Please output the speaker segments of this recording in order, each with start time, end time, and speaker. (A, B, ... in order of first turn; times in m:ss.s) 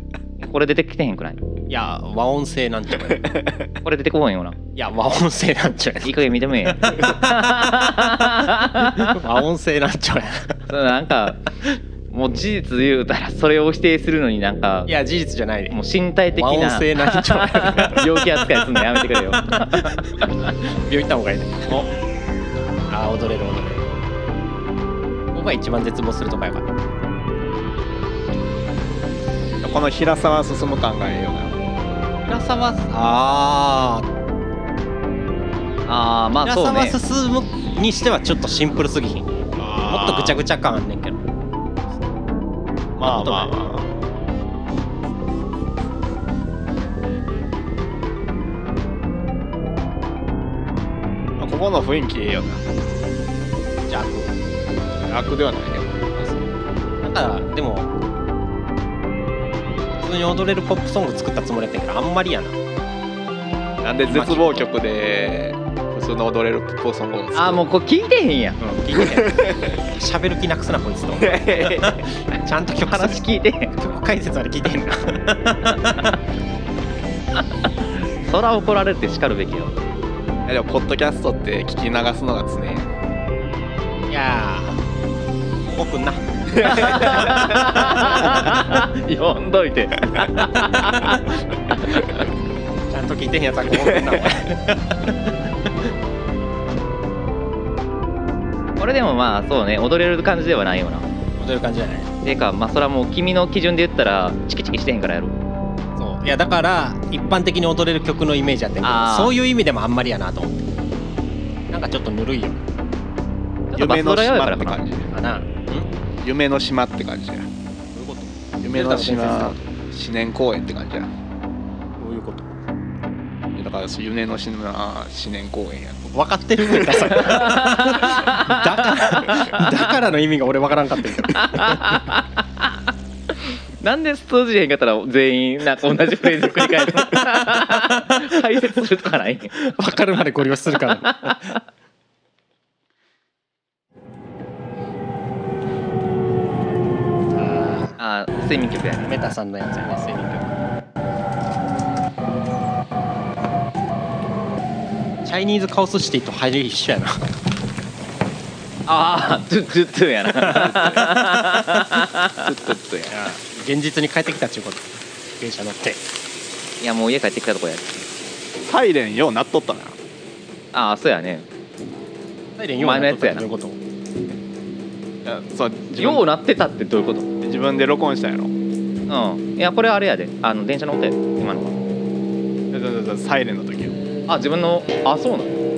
0:00.4-0:01.4 A
0:01.7-0:03.4 B
0:03.8-0:04.6 A
0:04.8-0:07.1 B
0:06.0-0:09.2 A
0:08.8-0:10.7 B
0:10.7-0:11.4 A
0:12.1-0:14.9 A
0:14.8-0:15.8 B
0:15.7-0:20.5 A
0:16.3-0:18.4 B
0:19.1-0:20.0 B
0:20.6-0:21.8 B
0:22.9-0:23.8 B
0:25.3-0:26.7 B
0:29.6-0:31.6 C
0:32.2-0:34.1 B
0:35.8-0:37.0 A
0:36.4-0:39.3 B
0:39.6-0:40.4 C
0:39.8-0:41.2 B
0:43.0-0:43.9 C
0:43.0-0:43.5 B
0:51.4-0:52.6 C
0:53.9-0:54.3 B
0:55.0-0:56.3 C
0:57.0-0:57.9 B
1:00.0-1:02.6 B
1:03.8-1:07.6 C
1:04.0-1:04.7 B
1:07.3-1:08.6 A
1:08.6-1:16.2 B
1:09.0-1:09.8 C
1:11.2-1:12.1 C
1:12.8-1:13.7 A
1:17.9-1:19.7 A
1:20.5-1:22.9 C
1:24.1-1:24.8 B
1:25.7-1:27.2 B
1:26.5-1:27.3 C
1:26.6-1:32.2 A
1:32.9-1:35.9 B
1:33.8-1:34.2 C
1:38.8-1:41.1 A
1:41.4-1:42.1 B
1:42.2-1:45.4 A
1:46.0-1:50.6 B
1:48.8-1:49.3 A
1:51.7-1:52.6 B
1:53.7-1:54.8 A
1:53.7-1:55.1 C
1:55.1-1:55.9 B
1:56.2-1:57.5 C
1:57.9-1:59.7 B
1:58.6-2:01.1 C
2:02.0-2:02.5 B
2:03.6-2:06.1 C
2:06.1-2:12.0 B
2:06.6-2:07.1 C
2:07.1-2:09.8 A
2:11.3-2:12.8 A
2:13.8-2:19.7 A
2:19.5-2:21.5 B
2:21.0-2:21.5 A
2:27.3-2:28.0 B
2:28.0-2:29.1 A
2:29.0-2:30.6 B
2:35.2-2:37.2 B
2:38.9-2:42.4 A
2:40.5-2:41.2 C
2:42.4-2:43.3 C
2:43.1-2:46.0 B
2:46.8-2:48.0 A
2:48.6-2:50.0 C
2:50.7-2:51.4 A
2:52.6-2:53.8 B
2:52.8-2:53.5 A
2:55.2-2:56.3 C
2:56.0-2:57.3 A
2:57.4-2:58.5 C
2:59.1-3:01.8 A
3:02.7-3:04.0 C
3:04.3-3:05.5 A